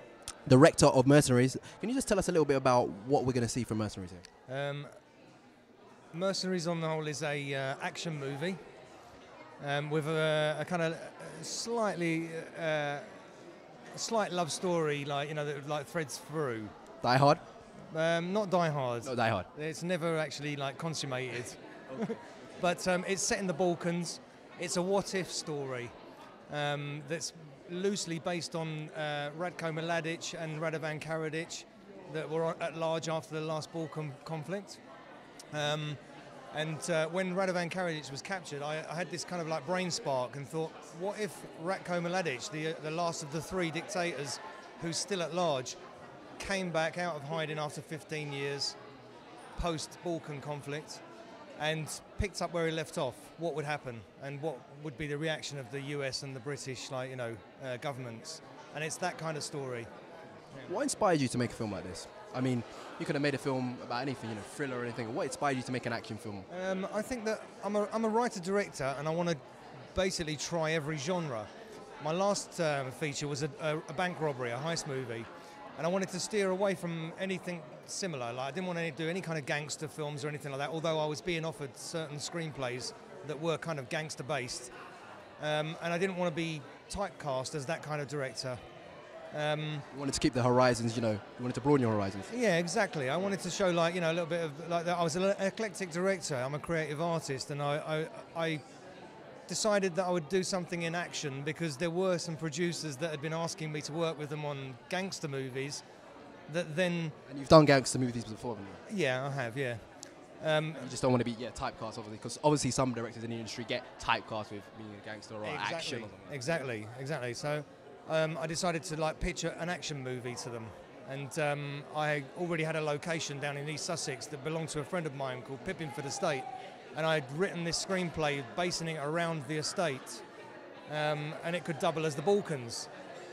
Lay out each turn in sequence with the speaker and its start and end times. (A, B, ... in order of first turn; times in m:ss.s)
0:00.4-0:04.2 A
0:04.5-0:04.9 B
0:06.1-0:08.6 B
0:09.6-0:13.1 B
0:13.9-0:16.7 B
0:17.0-0:17.4 A
0:17.9-0:25.9 B
0:19.0-0:19.5 A
0:26.5-0:34.8 B
0:35.5-0:36.0 B
0:36.5-0:45.8 B
0:46.4-0:48.8 B
0:49.6-0:51.0 B
0:51.6-0:59.9 B
1:00.6-1:06.5 A
1:06.5-1:09.4 B
1:09.9-1:11.5 B
1:12.0-1:24.7 B
1:25.4-1:28.6 B
1:29.3-1:29.9 B
1:29.9-1:32.3 A
1:32.3-1:38.6 B
1:39.5-1:45.8 B
1:46.5-1:47.2 B
1:47.3-1:48.8 A
1:48.8-1:49.8 B
1:50.4-1:50.9 B
1:50.8-1:56.4 A
1:55.4-2:10.2 B
2:10.9-2:12.9 B